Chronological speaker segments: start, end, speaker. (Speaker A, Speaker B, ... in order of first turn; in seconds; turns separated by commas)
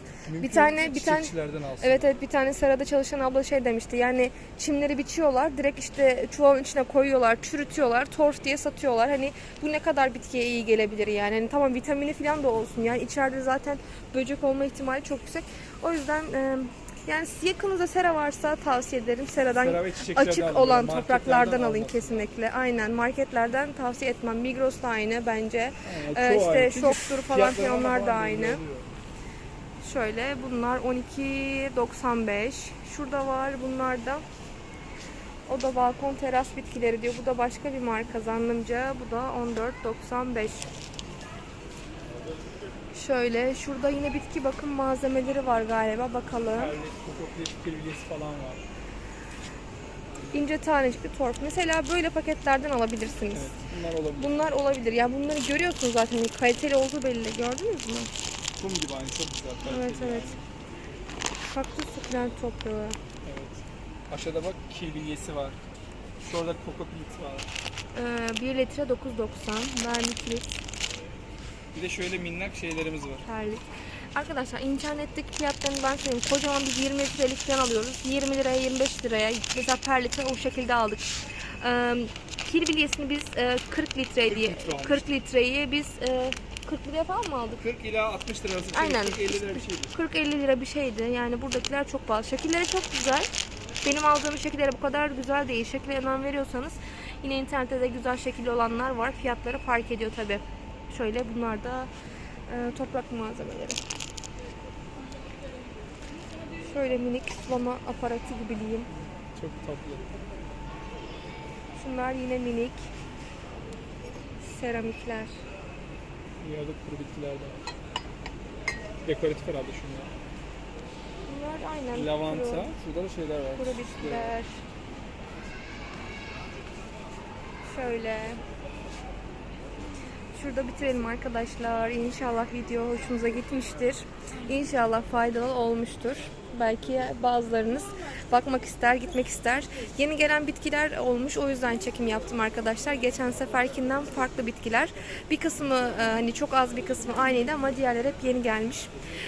Speaker A: 0.3-2.1, Speaker B: 0.4-28.6, Speaker A: 19.5-22.3, Speaker A: 25.8-28.9, Speaker B: 29.8-34.2, Speaker B: 35.5-40.8, Speaker B: 42.9-46.8, Speaker A: 46.5-48.6, Speaker A: 50.1-50.4, Speaker B: 50.3-53.6, Speaker A: 53.3-54.4, Speaker B: 54.2-58.1, Speaker A: 58.6-60.5, Speaker B: 59.6-60.3, Speaker B: 61.5-63.0, Speaker A: 63.2-65.6, Speaker A: 66.2-67.5, Speaker B: 67.9-70.5, Speaker A: 71.7-73.3, Speaker B: 73.2-87.6, Speaker A: 84.2-85.1, Speaker A: 87.6-90.0, Speaker B: 88.7-93.3, Speaker B: 93.8-101.9, Speaker B: 102.5-103.8, Speaker B: 106.6-108.9, Speaker A: 109.0-110.2, Speaker B: 111.8-112.9, Speaker B: 114.4-115.4, Speaker A: 116.4-117.6, Speaker A: 119.0-120.1, Speaker B: 121.3-122.8, Speaker A: 121.9-124.4, Speaker B: 123.6-124.6, Speaker B: 127.7-128.4, Speaker B: 130.3-148.9